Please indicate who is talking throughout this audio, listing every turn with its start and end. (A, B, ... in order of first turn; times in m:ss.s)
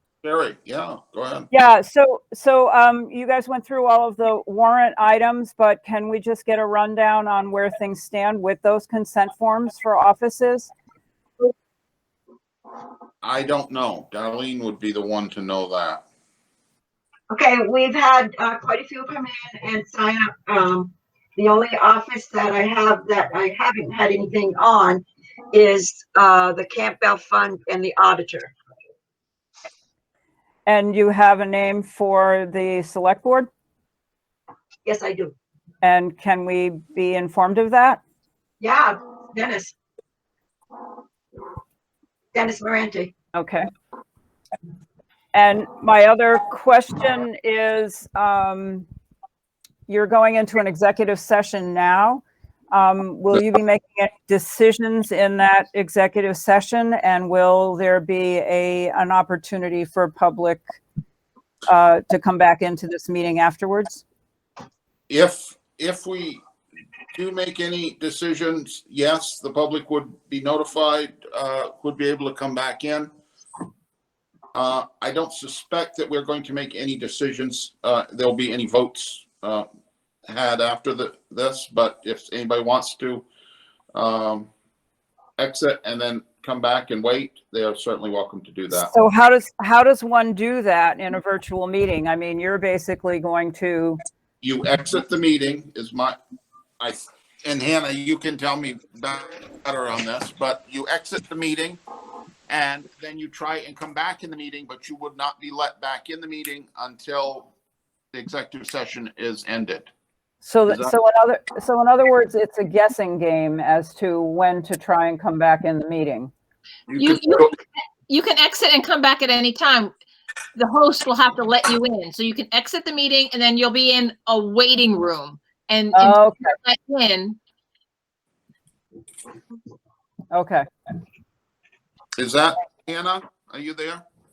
0:00.2-0:01.5 A
0:01.5-0:10.7 B
0:13.2-0:16.0 A
0:17.3-0:28.5 C
0:30.7-0:33.5 B
0:34.9-0:35.3 C
0:35.8-0:38.0 B
0:38.6-0:39.7 C
0:42.3-0:43.1 C
0:43.4-0:43.7 B
0:45.3-0:48.9 B
0:49.9-1:00.7 B
1:01.7-1:04.0 B
1:05.1-1:06.4 A
1:07.1-1:13.1 A
1:14.5-1:19.7 A
1:20.3-1:23.2 A
1:23.9-1:24.5 A
1:25.4-1:28.9 A
1:28.7-1:34.0 B
1:34.4-1:36.2 A
1:36.8-1:41.8 A
1:42.5-1:47.5 A
1:48.1-1:49.9 A
1:50.4-1:56.3 B
1:56.9-1:57.5 A
1:56.9-1:57.6 D
1:58.1-1:59.9 D
2:00.6-2:07.4 D
2:05.9-2:06.5 B
2:10.3-2:10.6 B
2:12.2-2:14.0 A